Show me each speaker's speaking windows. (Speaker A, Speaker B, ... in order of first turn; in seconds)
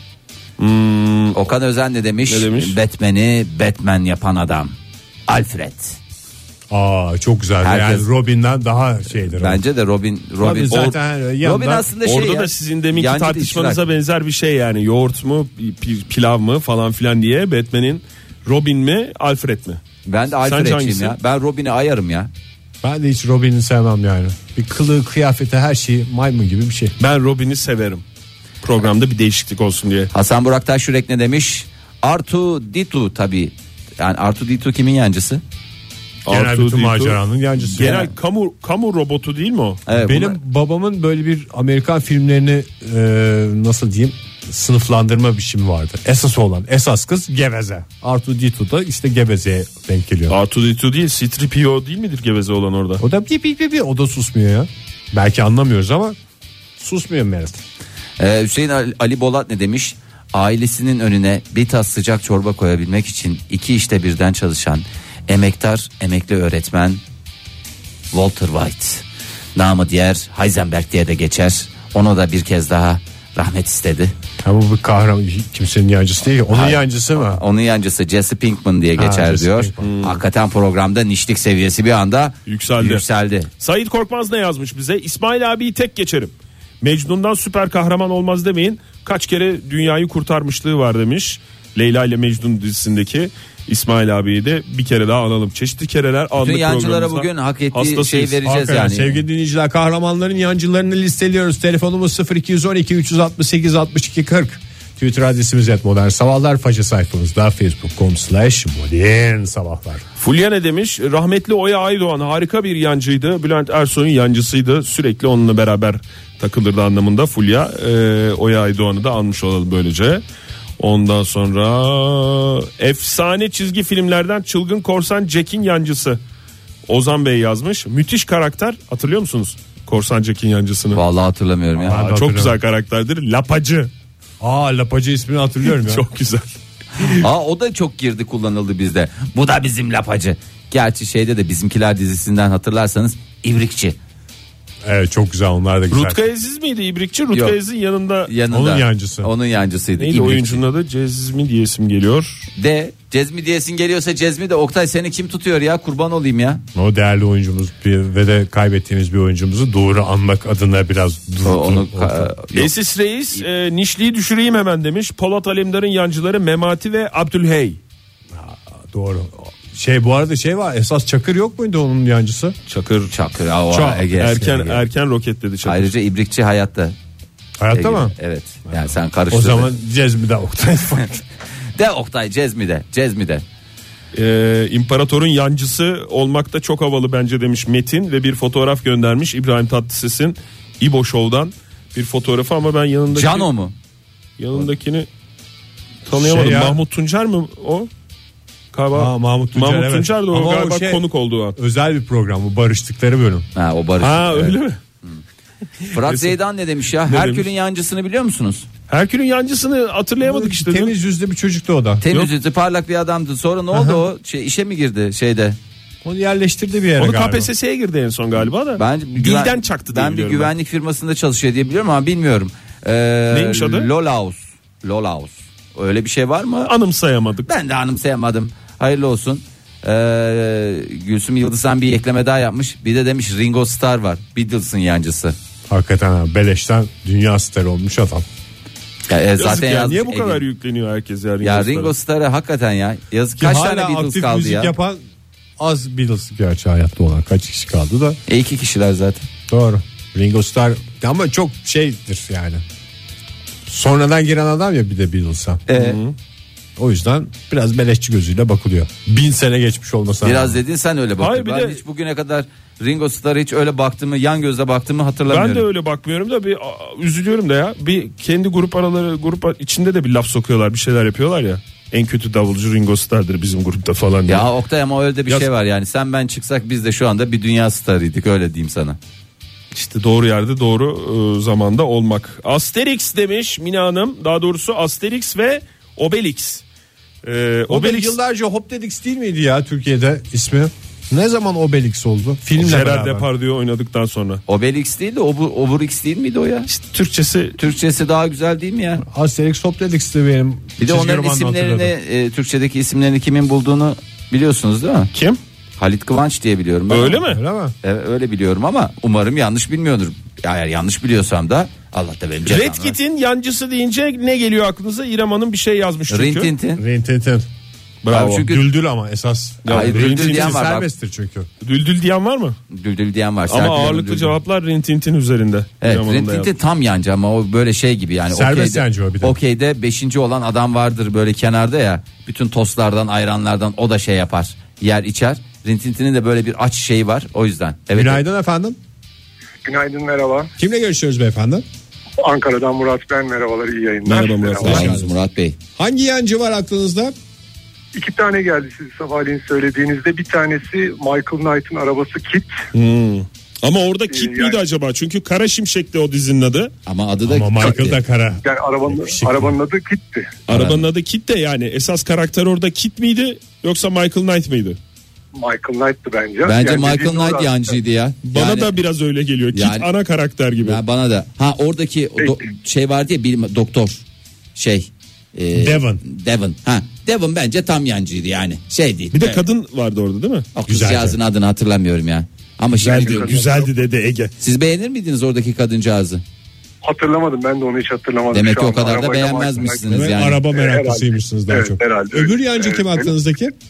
Speaker A: 0.6-1.4, 2.3-2.8, 10.6-11.0, 12.0-19.8, 20.4-21.2, 27.0-28.0, 28.6-30.1, 36.2-37.2, 37.7-39.8, 50.3-53.0, 79.8-80.2, 82.5-83.0, 83.6-98.4, 110.2-120.2, 120.8-126.2, 126.9-131.0, 131.8-133.9, 135.7-136.4, 145.9-148.3, 150.0-152.5, 162.6-167.8, 172.7-173.1, 174.2-175.9, 184.1-193.5, 194.4-195.1, 196.1-197.9, 198.7-201.6, 204.0-204.8, 206.0-206.4, 207.1-207.5, 208.9-210.9, 217.0-220.5, 223.3-223.9, 226.7-227.5, 239.4-241.9, 255.7-256.1, 261.2-261.8, 265.3-274.5, 279.7-286.6, 287.2-288.2, 292.6-294.4, 296.7-297.6, 305.1-305.4, 306.9-307.4, 312.4-316.5, 318.0-318.5, 319.6-320.6, 321.6-322.6, 323.5-326.5, 344.1-345.1, 352.7-356.7, 360.5-364.8, 368.2-370.8, 379.1-380.5, 382.8-384.3
Speaker B: 1.4-4.8, 5.3-6.0, 7.6-8.1, 9.2-13.8, 20.1-22.3, 30.1-35.4, 39.9-40.4, 58.2-67.0, 68.1-74.1, 76.5-83.5, 96.4-99.2, 130.9-132.1, 137.0-144.0, 148.3-150.6, 152.6-156.6, 161.4-162.7, 173.1-174.8, 175.7-177.0, 177.7-179.7, 181.8-183.4, 193.1-193.7, 203.6-205.2, 205.9-208.7, 212.0-215.6, 218.8-226.7, 227.5-235.4, 239.1-240.4, 241.4-244.7, 248.3-249.3, 255.7-256.0, 260.2-265.7, 274.3-279.0, 294.5-296.7, 297.6-299.0, 300.8-305.1, 305.8-307.3, 307.8-313.0, 316.1-316.8, 318.1-318.6, 319.7-320.9, 322.7-324.4, 325.8-338.2, 344.6-345.6, 356.9-358.0, 360.5-360.9, 366.4-368.8, 369.5-369.9, 370.6-374.0, 374.6-379.4, 380.6-383.4, 384.4-386.2, 388.3-390.4
Speaker C: 6.7-9.6, 10.4-11.9, 22.8-26.9, 36.3-38.1, 39.9-50.4, 53.0-56.2, 56.8-57.6, 74.4-77.4, 79.0-79.8, 98.4-110.0, 131.8-132.6, 134.4-136.1, 144.8-146.2, 148.5-149.3, 156.8-162.3, 168.3-172.6, 173.7-174.6, 177.6-178.1, 178.7-181.2, 196.1-196.8, 198.9-201.0, 201.6-203.5, 210.2-212.0, 213.7-214.0, 216.0-217.5, 235.7-238.2, 243.4-245.0, 245.6-248.2, 249.5-252.6, 253.7-255.6, 256.8-260.6, 287.7-293.3, 299.0-301.9, 307.3-307.7, 316.8-317.5, 318.4-321.5, 328.3-329.4, 337.9-338.8, 340.6-341.6, 344.7-345.0, 345.8-347.1, 357.2-359.5, 375.5-376.0, 380.7-381.2, 389.9-393.6
Speaker D: 339.6-340.5, 342.2-344.9, 347.9-352.6, 354.1-354.6, 358.4-360.4, 365.3-367.8, 382.9-383.7, 386.8-393.1